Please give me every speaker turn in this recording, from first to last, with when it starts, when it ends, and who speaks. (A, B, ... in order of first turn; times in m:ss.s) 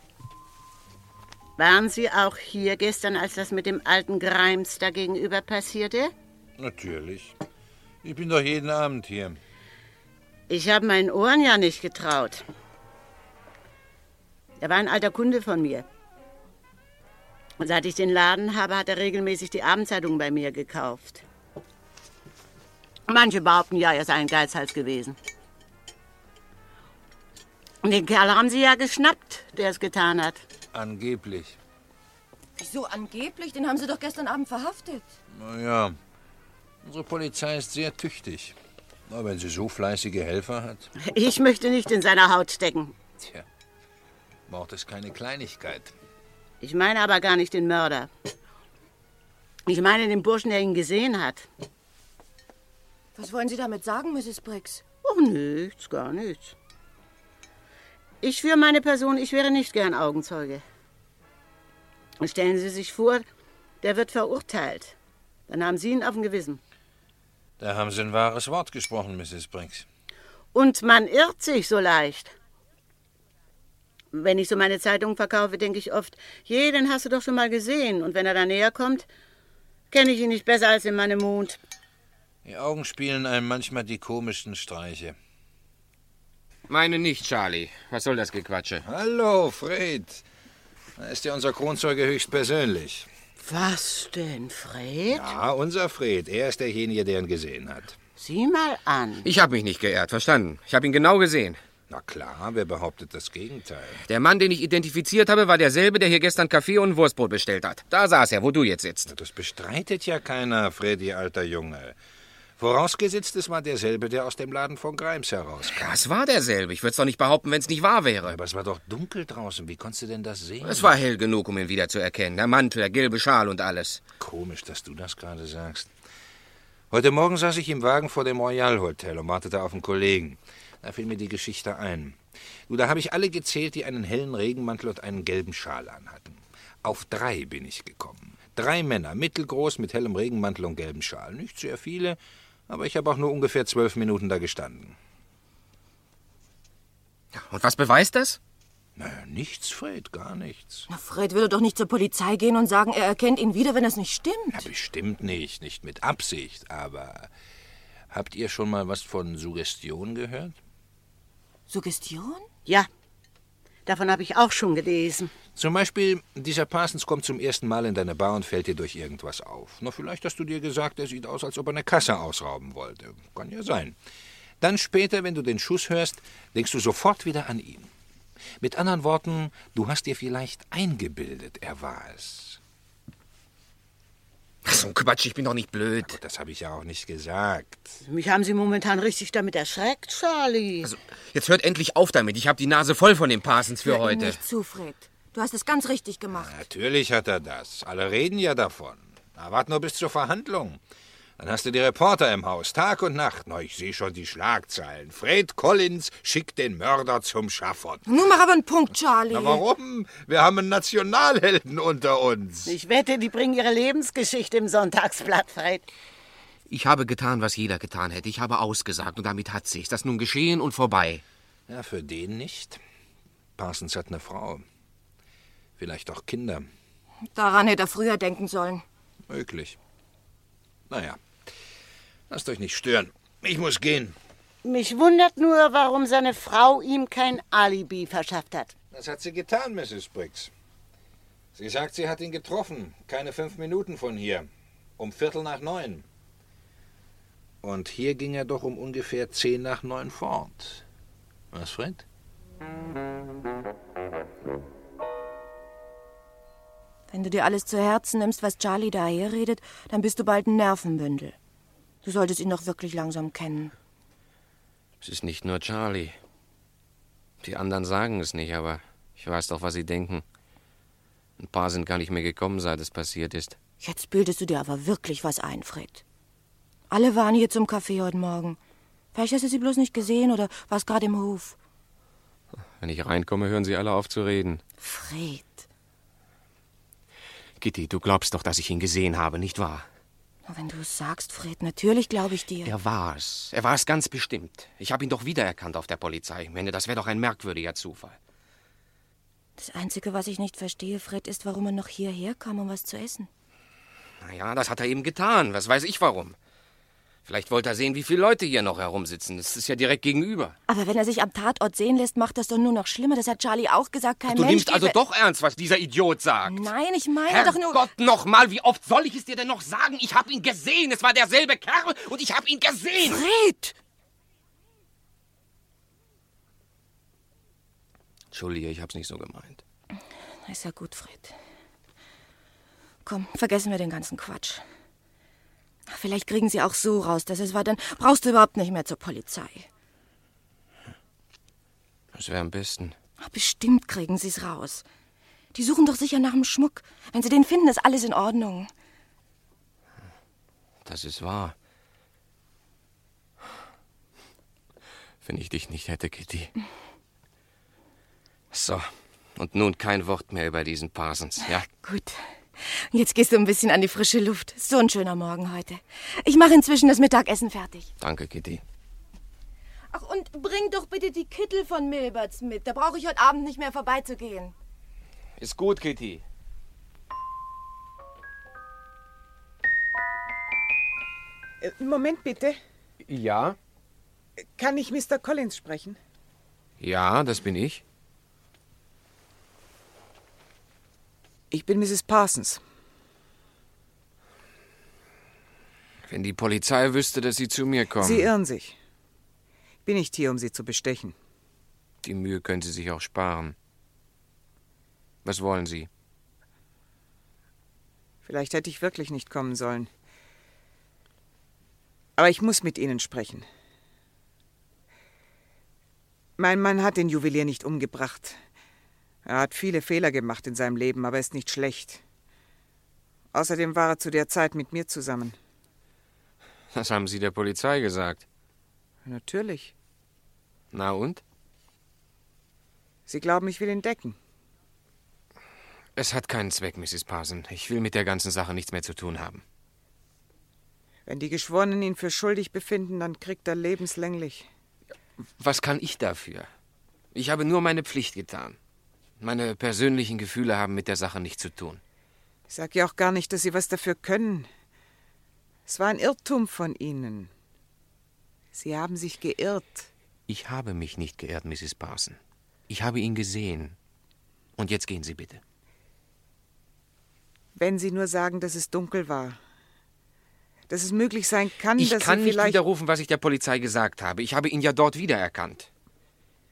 0:01.6-0:06.1 A
0:06.6-0:07.4 B
0:08.0-0:09.4 B
0:10.5-0:12.4 A
0:14.6-0:15.8 A
0:17.6-0:21.2 A
0:23.1-0:25.2 A
0:27.8-0:30.4 A
0:30.7-0:31.6 B
0:32.6-0:35.1 C
0:35.3-0:36.0 B
0:36.8-0:38.6 B
0:39.1-0:40.9 B
0:41.1-0:43.0 A
0:44.5-0:45.9 B
0:46.6-0:48.1 A
0:49.7-0:51.5 A
0:53.2-0:54.8 C
0:55.0-0:56.6 A
0:58.2-1:00.6 A
1:02.2-1:03.2 A
1:03.8-1:05.0 A
1:05.5-1:06.6 A
1:07.6-1:09.9 B
1:10.5-1:12.3 A
1:14.1-1:19.1 A
1:19.9-1:21.6 A
1:22.4-1:25.2 B
1:26.7-1:28.8 D
1:28.8-1:30.2 B
1:31.0-1:33.1 B
1:33.4-1:35.3 A
1:35.1-1:38.0 B
1:38.2-1:39.3 A
1:39.2-1:41.6 D
1:41.9-1:44.0 B
1:44.1-1:49.1 D
1:49.1-1:52.0 B
1:52.6-1:55.9 B
1:55.7-1:58.4 D
1:58.2-2:00.9 B
2:00.6-2:04.0 D
2:04.2-2:05.9 B
2:06.9-2:22.2 B
2:22.7-2:25.0 B
2:27.3-2:28.4 D
2:29.0-2:30.9 B
2:30.9-2:34.7 C
2:34.5-2:37.3 B
2:38.1-2:40.6 B
2:41.7-2:42.5 C
2:43.9-2:45.3 A
2:45.6-2:54.0 B
2:54.6-2:57.9 B
2:58.6-3:02.6 B
3:04.6-3:06.2 D
3:06.0-3:08.0 B
3:08.1-3:10.9 A
3:10.8-3:14.4 D
3:13.8-3:16.6 C
3:16.3-3:20.8 B
3:21.4-3:28.0 B
3:28.1-3:29.6 C
3:29.3-3:32.7 B
3:32.7-3:35.8 A
3:36.7-3:41.2 D
3:41.7-3:42.8 B
3:43.6-3:44.6 B
3:45.8-3:46.7 B
3:47.3-3:48.8 C
3:49.3-3:49.8 B
3:50.9-3:51.2 B
3:52.3-3:54.2 B
3:54.6-3:58.7 A
3:58.9-4:00.5 B
4:01.6-4:04.5 B
4:05.0-4:06.0 B
4:07.6-4:10.8 B
4:11.5-4:12.0 B
4:17.1-4:21.4 C
4:22.0-4:23.7 C
4:25.0-4:26.2 D
4:27.4-4:30.2 D
4:31.4-4:33.6 D
4:33.8-4:36.0 C
4:36.9-4:38.6 C
4:39.1-4:41.6 C
4:42.8-4:44.6 D
4:44.8-4:45.7 C
4:47.6-4:49.9 D
4:50.5-4:52.7 C
4:52.6-4:58.2 D
4:59.6-5:03.3 C
5:04.2-5:06.4 D
5:07.3-5:10.6 D
5:10.7-5:15.0 C
5:14.3-5:16.7 D
5:16.5-5:17.9 C
5:17.3-5:23.2 D
5:23.0-5:23.8 C
5:28.3-5:29.6 D
5:30.5-5:31.3 C
5:33.0-5:34.6 C
5:35.9-5:39.7 C
5:42.1-5:43.0 D
5:43.2-5:44.8 C
5:45.5-5:48.7 C
5:50.8-5:51.6 D
5:55.2-5:56.5 D
5:58.5-6:01.7 D
6:01.4-6:07.9 C
6:08.0-6:08.6 D
6:09.9-6:14.5 C
6:15.4-6:16.2 D
6:21.6-6:22.6 E
6:23.0-6:23.6 D
6:24.6-6:26.0 E
6:26.8-6:27.8 D
6:31.5-6:32.6 E
6:36.1-6:38.3 D
6:38.0-6:38.8 E
6:39.8-6:41.2 E
6:42.0-6:43.6 D
6:45.2-6:45.9 D
6:48.2-6:49.9 E
6:52.2-6:53.5 E
6:56.4-6:58.4 E
6:59.2-7:02.0 E
7:03.3-7:05.4 E
7:06.7-7:08.3 D
7:09.0-7:09.7 E
7:10.7-7:11.2 D
7:13.1-7:14.2 E
7:16.0-7:19.4 D
7:21.1-7:24.5 E
7:25.4-7:26.5 D
7:27.1-7:28.6 D
7:29.2-7:31.8 D
7:32.5-7:34.5 E
7:35.7-7:37.3 E
7:38.5-7:39.9 E
7:40.3-7:42.2 D
7:42.7-7:43.8 D
7:44.6-7:45.4 D
7:47.6-7:49.4 E
7:50.7-7:52.6 E
7:51.8-7:55.7 D